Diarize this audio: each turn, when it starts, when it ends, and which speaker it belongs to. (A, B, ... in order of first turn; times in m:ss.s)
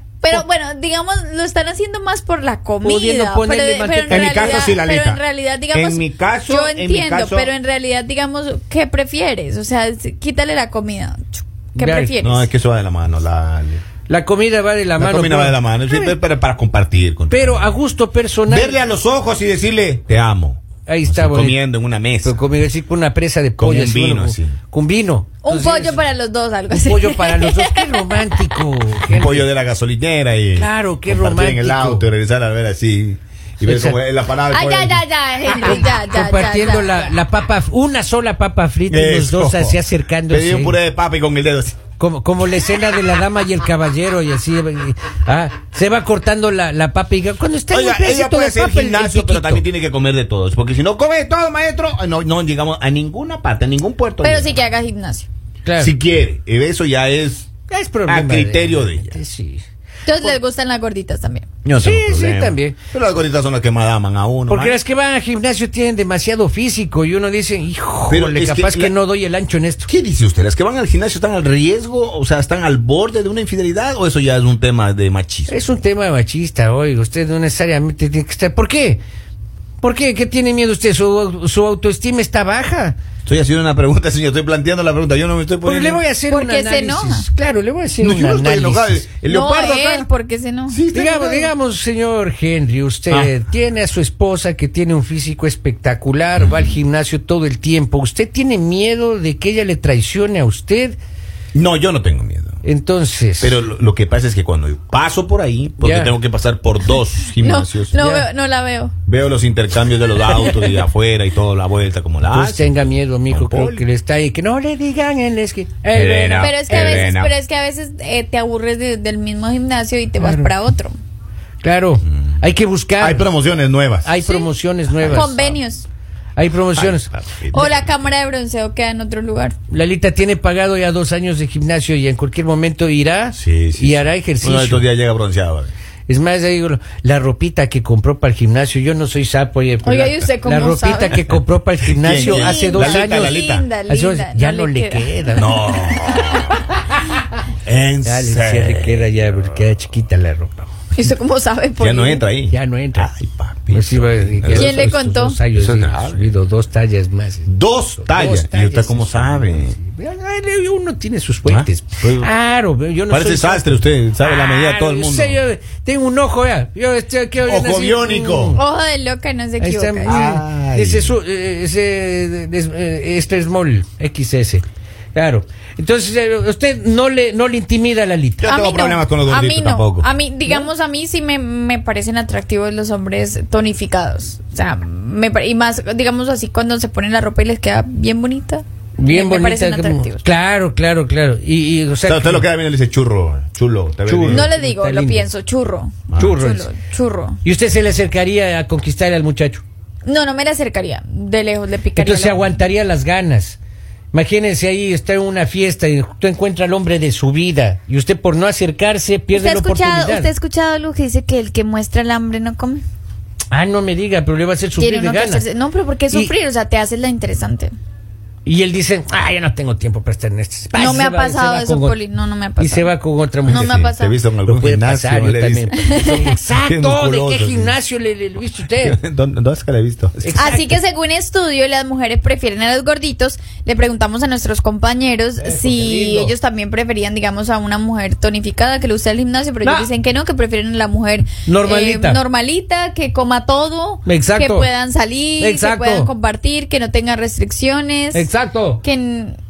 0:00.2-0:12.5 A
0:02.8-0:04.8 B
0:04.1-0:07.5 C
0:11.8-0:12.2 B
0:12.2-0:13.8 C
0:14.1-0:16.2 B
0:15.0-0:17.8 C
0:17.3-0:18.8 B
0:18.5-0:22.4 C
0:20.9-0:21.6 B
0:22.2-0:26.0 B
0:23.6-0:24.6 C
0:25.4-0:28.5 A
0:26.7-0:29.5 B
0:29.1-0:35.0 C
0:30.6-0:32.1 B
0:33.6-0:34.0 B
0:34.5-0:37.1 A
0:35.4-0:40.8 B
0:38.9-0:41.8 C
0:42.0-0:49.6 B
0:47.7-0:54.6 C
0:54.2-0:55.3 A
0:55.6-0:55.9 B
0:55.8-0:57.5 C
0:57.7-0:59.6 B
0:58.1-0:59.2 C
1:00.1-1:01.5 A
1:01.6-1:04.8 C
1:01.8-1:02.8 B
1:04.5-1:09.9 B
1:08.1-1:08.9 C
1:09.9-1:15.6 C
1:15.5-1:19.0 B
1:19.8-1:23.0 B
1:23.2-1:26.0 C
1:25.6-1:29.1 B
1:26.3-1:27.3 A
1:28.0-1:30.1 C
1:29.2-1:30.8 A
1:30.7-1:31.5 C
1:30.9-1:41.0 B
1:36.4-1:36.7 C
1:41.5-1:42.6 C
1:42.6-1:43.6 B
1:43.4-1:48.0 C
1:45.8-1:46.1 B
1:47.4-1:48.9 A
1:47.9-1:48.3 B
1:49.1-1:53.9 C
1:52.3-1:57.1 B
1:55.9-1:57.3 C
1:56.4-2:01.0 A
2:00.2-2:00.5 B
2:01.6-2:03.3 B
2:03.0-2:04.1 C
2:04.0-2:05.6 B
2:04.2-2:04.5 A
2:05.0-2:05.8 A
2:06.4-2:07.1 B
2:06.8-2:07.9 C
2:07.5-2:09.6 A
2:09.7-2:14.9 B
2:13.4-2:15.7 C
2:16.1-2:27.0 B
2:19.8-2:21.2 A
2:21.9-2:23.7 C
2:22.1-2:26.3 A
2:25.4-2:26.5 C
2:27.6-2:29.2 C
2:28.0-2:30.7 B
2:30.9-2:32.3 A
2:31.8-2:34.8 C
2:32.5-2:33.1 B
2:33.7-2:48.6 B
2:34.5-2:35.4 A
2:35.5-2:36.3 C
2:37.5-2:39.8 C
2:41.5-2:42.3 C
2:43.1-2:45.4 C
2:47.4-2:48.6 C
2:48.5-2:50.2 A
2:49.6-2:54.6 B
2:50.1-2:51.2 C
2:55.2-2:58.5 B
2:58.4-3:00.1 C
2:58.5-3:10.2 A
3:09.0-3:12.5 B
3:12.1-3:14.5 C
3:14.1-3:15.3 B
3:14.3-3:17.4 A
3:16.1-3:16.4 C
3:16.2-3:16.7 B
3:17.4-3:19.6 B
3:20.0-3:22.5 A
3:22.0-3:23.6 B
3:24.1-3:30.3 B
3:29.3-3:32.8 A
3:33.5-3:35.4 B
3:34.8-3:37.7 A
3:38.4-3:42.0 B
3:40.8-3:42.9 A
3:42.6-3:43.9 B
3:43.4-3:44.2 A
3:43.5-3:47.8 C
3:44.4-3:49.0 B
3:45.7-3:46.3 A
3:48.8-3:50.5 C
3:50.2-3:50.8 B
3:50.4-4:08.3 A
3:55.4-3:56.3 B
3:59.6-3:59.9 B
4:01.4-4:02.2 B
4:04.0-4:04.7 B
4:05.4-4:06.1 B
4:08.1-4:08.8 B
4:08.8-4:09.4 A